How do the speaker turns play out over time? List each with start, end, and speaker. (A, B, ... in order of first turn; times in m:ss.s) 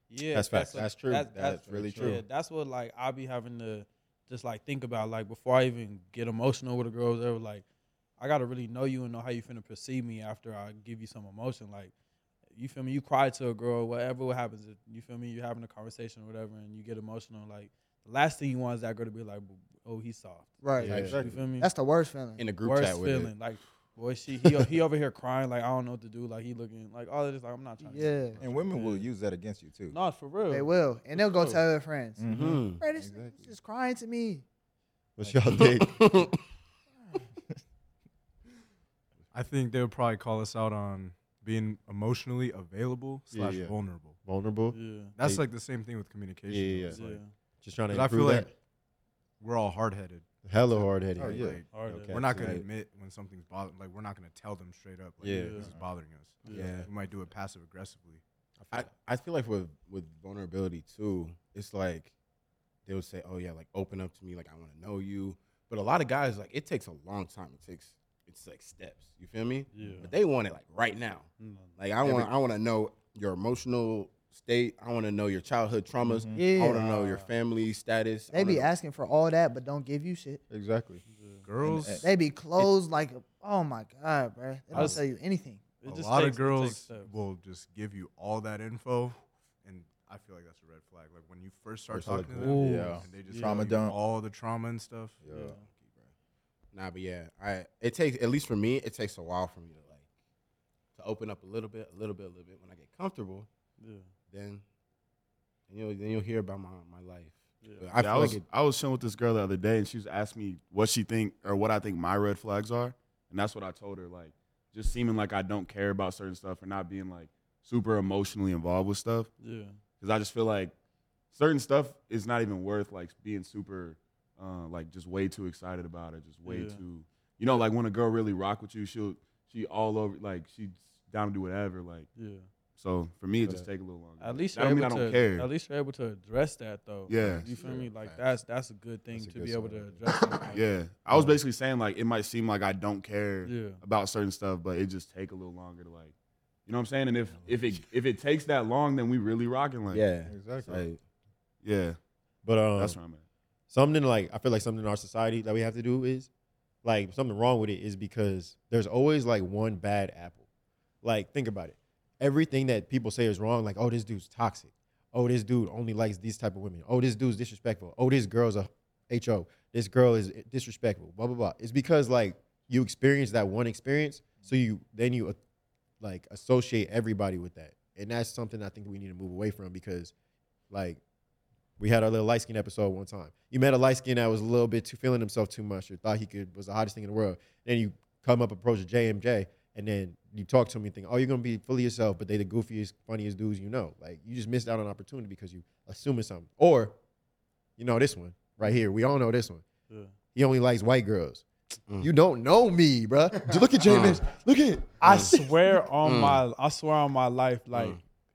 0:00.1-0:07.6 A
0:00.3-0:02.2 B
0:01.4-0:02.2 C
0:08.2-0:11.9 A
0:12.6-0:21.7 A
0:20.6-0:22.4 D
0:20.8-0:21.2 B
0:20.9-0:21.5 C
0:22.4-0:23.3 E
0:22.6-0:29.1 A
0:27.8-0:28.4 D
0:28.4-0:30.0 C
0:29.9-0:31.6 A
0:30.5-0:34.4 D
0:32.2-0:33.5 C
0:32.3-0:32.8 E
0:35.2-0:36.3 B
0:35.2-0:35.6 C
0:35.6-0:36.2 E
0:39.3-0:44.2 F
0:43.3-0:45.5 B
0:44.7-0:45.1 A
0:45.2-0:47.2 F
0:46.5-0:47.0 B
0:46.9-0:47.3 A
0:47.6-0:48.5 B
0:47.9-0:48.5 F
0:49.4-0:58.2 F
0:50.4-0:52.6 B
0:51.2-0:51.6 C
0:51.7-0:52.2 A
0:52.1-0:52.6 E
0:55.2-0:55.6 B
0:55.3-0:55.7 A
0:56.5-0:56.9 E
0:58.7-1:02.1 E
1:02.8-1:18.7 E
1:09.7-1:10.1 A
1:11.4-1:11.7 A
1:16.0-1:16.6 C
1:16.3-1:17.3 D
1:18.3-1:20.4 D
1:20.5-1:21.0 C
1:21.1-1:21.4 A
1:21.4-1:22.0 F
1:21.6-1:22.0 C
1:22.0-1:25.7 D
1:24.7-1:25.0 A
1:25.8-1:27.1 A
1:25.8-1:35.3 F
1:31.9-1:32.7 B
1:32.3-1:34.0 C
1:32.4-1:33.6 A
1:35.2-1:35.6 C
1:35.3-1:35.6 A
1:36.7-1:40.0 E
1:41.0-1:43.5 E
1:43.8-1:44.1 A
1:44.3-1:44.6 E
1:45.7-1:48.4 E
1:48.0-1:59.3 G
1:59.4-1:59.8 A
2:00.0-2:00.7 G
2:01.3-2:12.1 G
2:06.4-2:06.8 A
2:12.2-2:12.4 A
2:12.8-2:15.5 G
2:14.2-2:20.6 A
2:17.1-2:17.7 G
2:17.2-2:17.5 B
2:17.8-2:18.3 C
2:19.1-2:20.0 B
2:20.5-2:26.1 G
2:21.1-2:21.4 B
2:23.4-2:23.8 A
2:26.7-2:30.1 G
2:29.9-2:31.0 E
2:30.2-2:30.9 C
2:31.6-2:32.0 G
2:32.4-2:33.0 B
2:32.8-2:33.2 G
2:33.7-2:36.3 B
2:36.8-2:40.4 B
2:41.0-2:55.4 B
2:56.0-3:00.1 B
3:00.7-3:01.0 B
3:01.8-3:17.0 B
3:17.8-3:19.6 B
3:20.3-3:21.4 B
3:22.0-3:25.3 B
3:23.8-3:24.2 E
3:25.0-3:28.0 A
3:25.0-3:25.4 E
3:26.0-3:26.4 E
3:27.7-3:28.0 E